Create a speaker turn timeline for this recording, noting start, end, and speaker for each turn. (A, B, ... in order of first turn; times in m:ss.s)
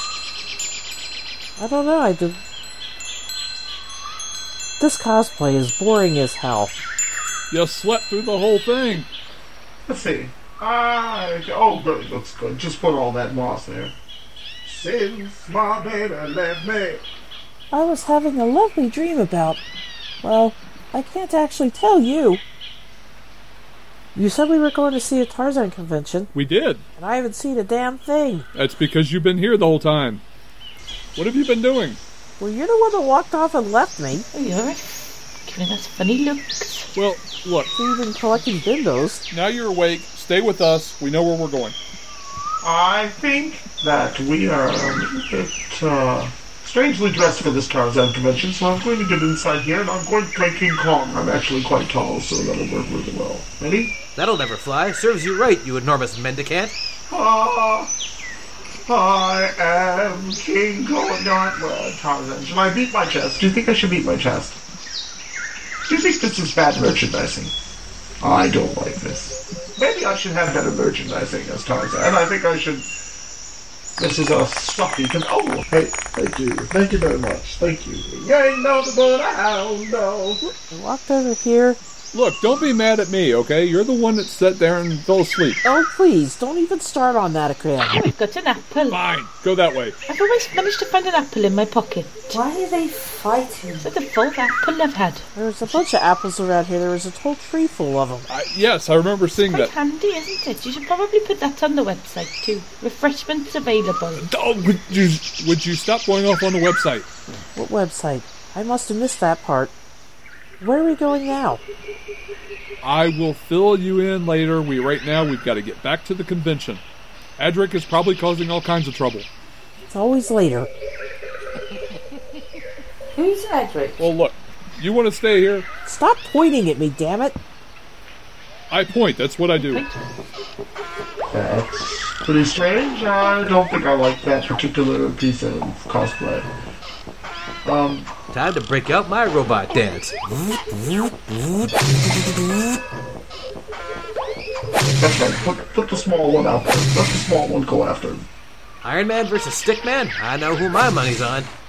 0:01.6-0:02.4 A
0:04.8-0:06.8 A
0:07.5-0:09.1 B
0:09.9-0:14.0 C
0:14.6-0:17.0 C
0:17.7-0:19.6 A
0:20.2-0:22.4 A
0:24.2-0:26.3 A
0:26.3-0:26.8 B
0:27.0-0:28.5 A
0:28.5-0:30.2 B
0:31.2-0:32.0 B
0:32.4-0:34.3 A
0:34.3-0:36.9 D
0:37.0-0:37.7 B
0:37.8-0:39.2 A
0:39.3-0:41.8 B
0:42.6-0:53.9 C
0:54.2-0:56.8 E
0:57.1-0:57.9 C
0:58.9-1:04.6 C
1:05.9-1:07.6 C
1:08.2-1:12.9 C
1:14.0-1:20.4 C
1:20.4-1:21.8 A
1:22.1-1:25.6 B
1:25.6-1:28.0 A
1:28.1-1:29.0 D
1:28.9-1:30.0 B
1:30.1-1:32.4 D
1:32.3-1:33.9 F
1:33.8-1:35.3 D
1:35.4-1:38.3 A
1:38.3-1:39.7 B
1:39.4-1:44.2 D
1:44.2-1:47.1 B
1:47.6-1:49.7 A
1:50.6-1:51.6 A
1:52.8-1:56.8 B
1:57.4-1:59.3 B
1:59.9-2:00.7 A
2:03.2-2:04.0 F
2:04.0-2:05.7 B
2:05.8-2:07.4 A
2:08.7-2:09.8 B
2:09.6-2:10.0 D
2:11.3-2:16.5 C
2:17.6-2:18.1 C
2:18.3-2:22.7 E
2:25.0-2:28.2 C
2:28.8-2:31.5 E